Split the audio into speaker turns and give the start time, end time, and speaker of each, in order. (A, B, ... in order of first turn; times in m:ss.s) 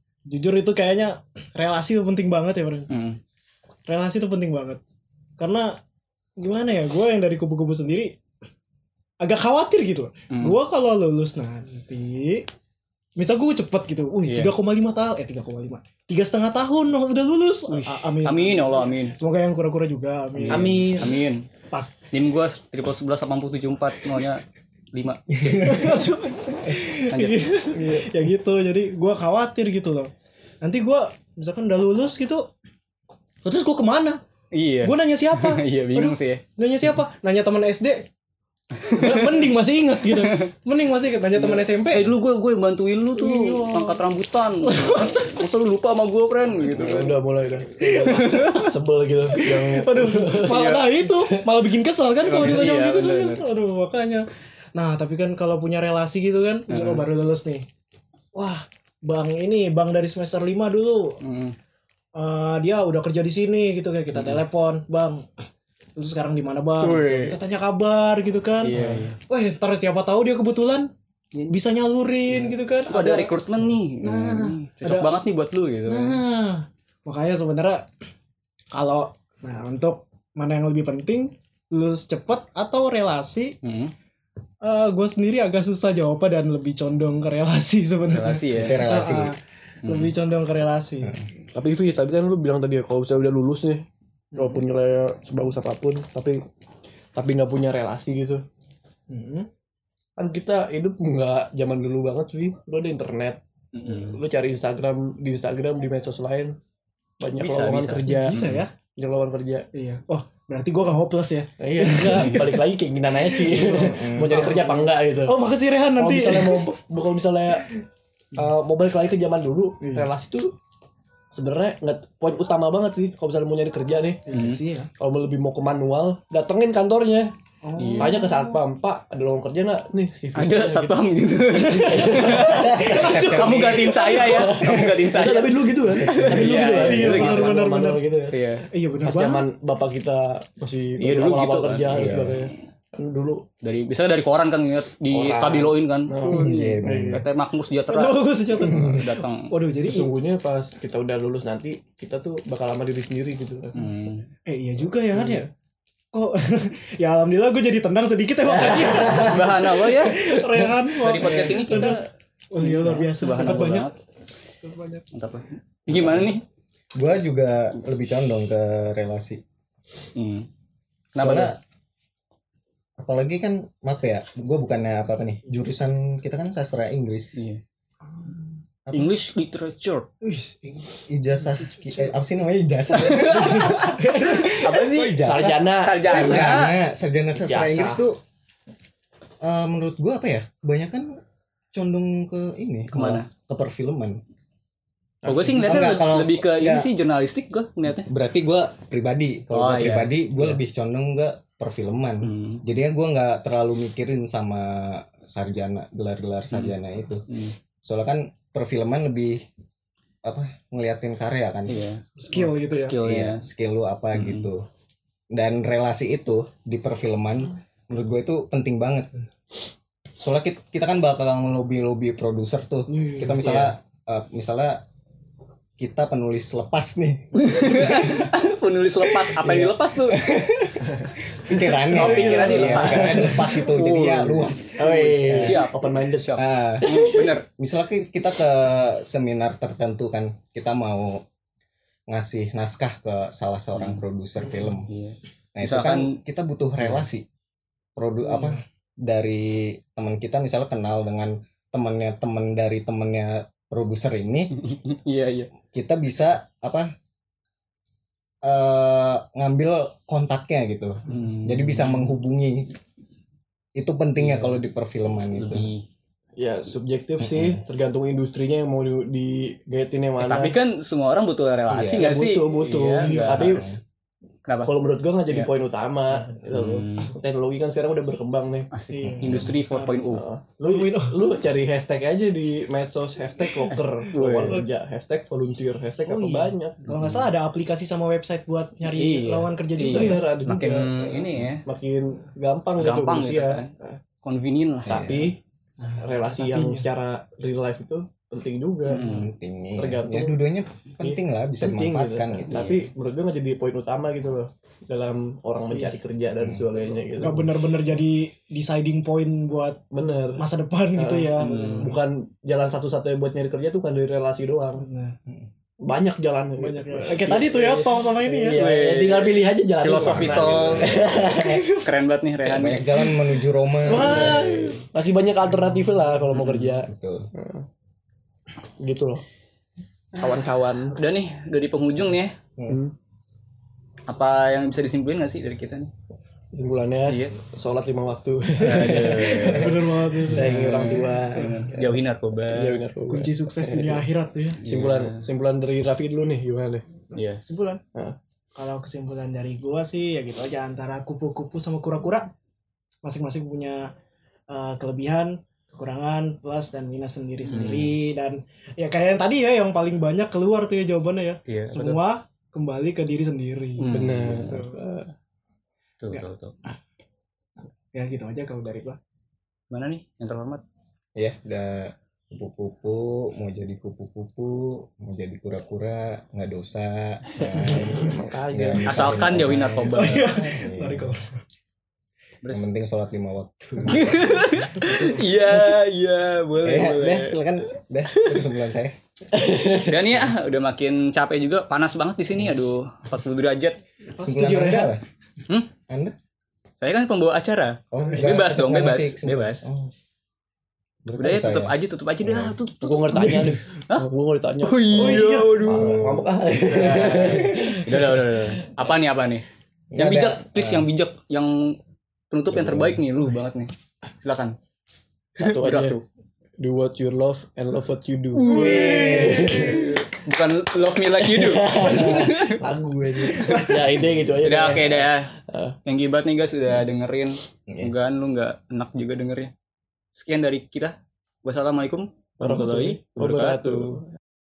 0:00.3-0:02.9 A
0:02.9-0:03.2 B
0:03.9-0:04.8 A
0:05.4-0:05.7 A
0:06.4-0:08.1 A
0:09.2-0:12.5 A
0:13.2-0:21.0 A
0:14.3-0:14.5 B
0:17.7-0:19.2 B
0:20.4-0:21.4 B
0:20.5-0:21.2 C
0:22.1-0:26.0 B
0:25.7-0:30.1 A
0:27.1-0:27.5 B
0:27.8-0:28.1 C
0:30.6-0:32.5 A
0:33.4-0:34.2 A
0:34.5-0:36.4 B
0:34.8-0:38.1 A
0:38.8-0:39.4 B
0:38.9-0:42.2 A
0:40.1-0:40.5 B
0:41.3-0:47.1 B
0:43.2-0:44.0 A
0:44.6-0:45.4 A
0:46.6-0:51.4 C
0:47.8-0:48.4 A
0:48.0-0:48.6 B
0:49.3-0:57.7 A
0:50.5-0:50.8 B
0:52.2-0:53.4 B
0:56.7-0:57.1 B
0:58.3-1:01.2 A
1:01.2-1:01.6 B
1:02.2-1:05.3 A
1:04.1-1:04.4 B
1:06.0-1:10.9 A
1:06.8-1:07.4 C
1:08.6-1:09.2 B
1:11.5-1:13.3 A
1:12.9-1:16.2 B
1:14.0-1:15.2 A
1:15.9-1:17.9 A
1:18.7-1:23.6 A
1:23.6-1:23.9 B
1:24.6-1:31.2 A
1:28.1-1:28.8 B
1:28.6-1:29.3 D
1:29.8-1:30.1 B
1:31.5-1:36.4 C
1:34.3-1:34.6 A
1:37.2-1:38.4 C
1:39.1-1:39.5 A
1:40.2-1:46.6 C
1:43.8-1:44.2 B
1:47.2-1:49.7 C
1:47.4-1:48.6 B
1:48.0-1:48.7 A
1:49.7-1:52.6 A
1:51.6-1:55.4 C
1:53.2-1:56.7 A
1:53.7-1:54.4 D
1:56.0-1:57.8 C
1:58.3-2:00.6 C
1:59.8-2:00.1 A
2:01.3-2:04.2 C
2:04.3-2:04.9 A
2:04.3-2:04.6 B
2:05.0-2:07.3 C
2:07.6-2:08.6 A
2:07.8-2:08.2 B
2:08.0-2:11.0 C
2:10.4-2:17.7 B
2:11.6-2:18.4 C
2:12.4-2:15.0 D
2:15.8-2:16.8 D
2:16.3-2:19.5 A
2:18.3-2:18.7 B
2:19.0-2:23.4 C
2:21.0-2:22.5 B
2:21.9-2:22.5 D
2:23.6-2:26.2 B
2:25.1-2:27.2 D
2:26.1-2:27.2 C
2:27.1-2:29.5 B
2:27.9-2:30.1 A
2:28.6-2:29.0 D
2:29.8-2:33.8 C
2:33.7-2:34.3 B
2:34.5-2:35.5 A
2:36.1-2:43.9 A
2:38.5-2:40.8 C
2:38.9-2:40.2 B
2:41.0-2:42.1 B
2:42.6-2:44.0 B
2:44.6-2:45.0 A
2:45.1-2:46.4 B
2:45.9-2:46.4 D
2:46.9-2:49.4 D
2:50.2-2:50.5 B
2:51.2-2:51.6 B
2:51.2-2:51.6 D
2:53.0-2:57.4 D
2:57.4-2:57.6 B
2:58.9-2:59.1 D
2:58.9-3:00.1 B
3:00.2-3:02.2 A
3:01.1-3:08.2 D
3:03.0-3:06.8 B
3:03.7-3:05.1 A
3:05.0-3:06.6 C
3:07.3-3:08.0 C
3:09.4-3:11.2 D
3:11.7-3:14.2 D
3:12.9-3:13.3 B
3:15.2-3:18.1 B
3:15.3-3:15.9 C
3:15.6-3:16.9 D
3:18.1-3:27.3 D
3:19.5-3:20.6 B
3:22.2-3:22.6 B
3:26.5-3:26.8 B
3:27.3-3:27.6 B
3:27.8-3:29.5 D
3:30.2-3:31.8 D
3:31.7-3:33.4 B
3:32.2-3:33.0 A
3:33.0-3:34.6 D
3:34.2-3:34.5 B
3:35.3-3:39.1 D
3:40.2-3:44.8 D
3:42.9-3:43.6 A
3:43.4-3:43.7 B
3:45.8-3:48.3 D
3:47.3-3:50.3 B
3:49.4-3:55.6 D
3:51.6-3:53.5 A
3:51.9-3:57.5 B
3:52.7-3:53.4 C
3:54.8-3:57.1 C
3:56.4-4:01.2 D
4:02.1-4:04.9 D
4:03.8-4:04.0 B
4:04.9-4:06.2 B
4:05.6-4:07.3 D
4:06.8-4:07.1 B
4:08.0-4:14.5 D
4:14.6-4:15.5 B
4:15.7-4:16.9 D
4:18.4-4:22.7 D
4:21.1-4:22.1 B
4:23.8-4:25.7 D
4:24.2-4:24.6 B
4:25.3-4:25.9 B
4:26.4-4:30.6 C
4:27.2-4:27.6 D
4:30.2-4:33.7 B
4:31.7-4:32.2 D
4:31.8-4:33.7 C
4:33.0-4:33.4 A
4:33.4-4:33.8 D
4:34.4-4:34.8 B
4:34.6-4:38.7 C
4:36.5-4:37.1 B
4:38.7-4:40.3 B
4:38.9-4:40.1 A
4:39.0-4:39.5 D
4:40.1-4:46.9 C
4:40.7-4:41.2 A
4:43.7-4:44.6 B
4:46.1-4:50.3 A
4:46.9-4:47.2 B
4:48.8-4:51.6 B
4:49.9-4:54.0 C
4:52.8-4:53.7 B
4:54.2-4:55.0 B
4:54.8-4:55.4 D
4:54.8-4:55.4 C
4:55.8-4:56.9 A
4:56.0-4:59.2 C
4:58.9-4:59.3 B
4:59.0-5:02.8 D
4:59.8-5:00.4 C
5:01.0-5:07.5 C
5:02.5-5:02.8 B
5:06.4-5:06.7 D
5:07.2-5:09.8 A
5:09.9-5:14.8 C
5:10.4-5:12.0 A
5:11.4-5:11.9 B
5:14.8-5:15.2 A
5:15.8-5:21.7 C
5:16.6-5:18.6 A
5:18.5-5:21.0 B
5:20.0-5:21.2 D
5:21.3-5:22.0 A
5:21.8-5:23.0 B
5:22.4-5:24.8 D
5:23.0-5:24.8 A
5:24.0-5:27.7 C
5:24.1-5:24.5 B
5:26.3-5:26.8 B
5:26.8-5:27.3 D
5:28.8-5:29.2 C
5:30.2-5:31.0 C
5:30.9-5:32.4 B
5:32.6-5:32.8 D
5:32.7-5:32.9 C
5:34.1-5:35.9 B
5:36.5-5:41.9 C
5:37.1-5:37.4 B
5:38.6-5:42.8 B
5:38.9-5:41.7 A
5:42.5-5:44.1 C
5:43.1-5:44.6 A
5:44.6-5:45.3 B
5:44.6-5:46.9 C
5:47.1-5:47.4 B
5:47.4-5:47.8 A
5:48.6-5:52.3 A
5:53.0-5:53.9 A
5:54.5-6:04.8 A
5:57.5-5:58.0 B
6:01.5-6:02.0 B
6:03.8-6:04.6 B
6:03.9-6:05.1 C
6:06.0-6:06.6 B
6:07.9-6:09.0 A
6:09.7-6:10.6 B
6:11.2-6:21.1 D
6:17.4-6:19.5 C
6:18.9-6:20.6 B
6:20.0-6:21.4 A
6:22.5-6:25.0 D
6:23.9-6:27.4 B
6:24.8-6:25.6 A
6:26.6-6:29.0 D
6:28.1-6:28.4 B
6:29.3-6:30.1 C
6:29.8-6:33.8 B
6:34.1-6:35.0 A
6:34.2-6:35.0 D
6:35.9-6:36.2 D
6:36.8-6:39.7 B
6:37.9-6:39.9 D
6:41.0-6:42.6 D
6:41.2-6:44.1 B
6:42.8-6:48.6 C
6:44.6-6:46.0 B
6:45.0-6:45.8 A
6:45.7-6:46.3 D
6:46.6-6:49.4 B
6:47.3-6:47.6 D
6:49.9-6:50.9 D
6:50.0-6:51.8 B
6:52.3-6:54.6 B
6:52.5-6:53.2 D
6:55.4-6:56.0 C
6:55.4-6:56.0 B
6:56.6-7:00.1 C
6:58.4-7:02.6 B
6:58.5-6:59.5 A
6:58.6-7:00.0 D
7:01.2-7:05.8 C
7:03.3-7:03.8 B
7:04.4-7:09.5 B
7:10.2-7:14.0 B
7:12.4-7:14.1 C